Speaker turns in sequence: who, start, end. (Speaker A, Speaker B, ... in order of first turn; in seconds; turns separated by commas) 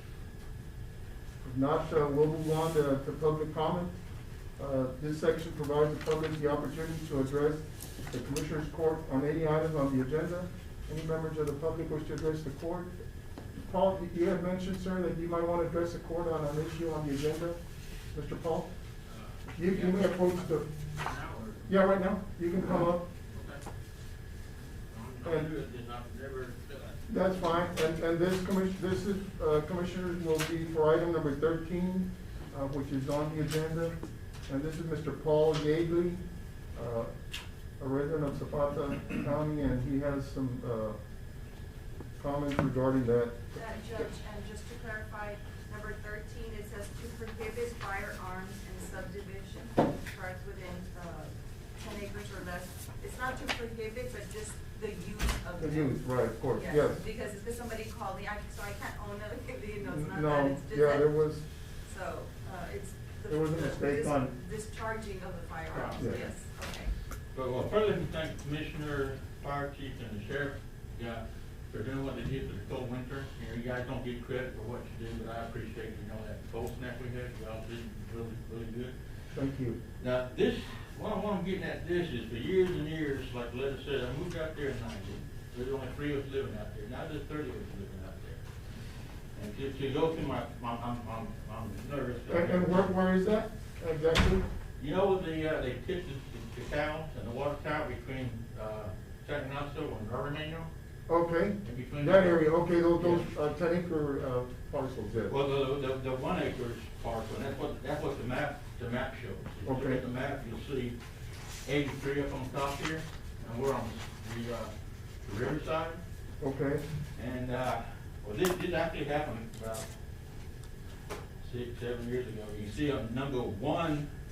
Speaker A: 1.4-3.9, Speaker A: 4.6-12.9, Speaker A: 13.6-17.6, Speaker A: 18.1-18.7, Speaker B: 19.1-20.2, Speaker A: 19.6-20.6, Speaker B: 21.0-21.7, Speaker A: 21.7-23.1, Speaker B: 23.3-23.6, Speaker B: 24.9-27.0, Speaker A: 25.2-25.5, Speaker A: 27.1-34.0, Speaker A: 34.5-36.2, Speaker A: 36.7-37.1, Speaker A: 37.8-41.0, Speaker A: 42.2-43.3, Speaker C: 43.5-61.1, Speaker A: 55.6-57.0, Speaker A: 59.8-61.4, Speaker C: 61.8-66.9, Speaker A: 63.3-64.3, Speaker B: 65.7-66.2, Speaker B: 67.3-78.9, Speaker A: 79.3-79.8, Speaker B: 80.0-88.4, Speaker B: 89.3-92.9, Speaker A: 92.3-94.4, Speaker B: 94.8-100.7, Speaker A: 101.1-105.3, Speaker B: 101.6-103.3, Speaker B: 105.3-111.0, Speaker A: 109.7-110.0, Speaker B: 111.6-114.7, Speaker B: 115.2-116.0, Speaker A: 116.4-116.8, Speaker B: 117.1-119.8, Speaker B: 121.4-124.0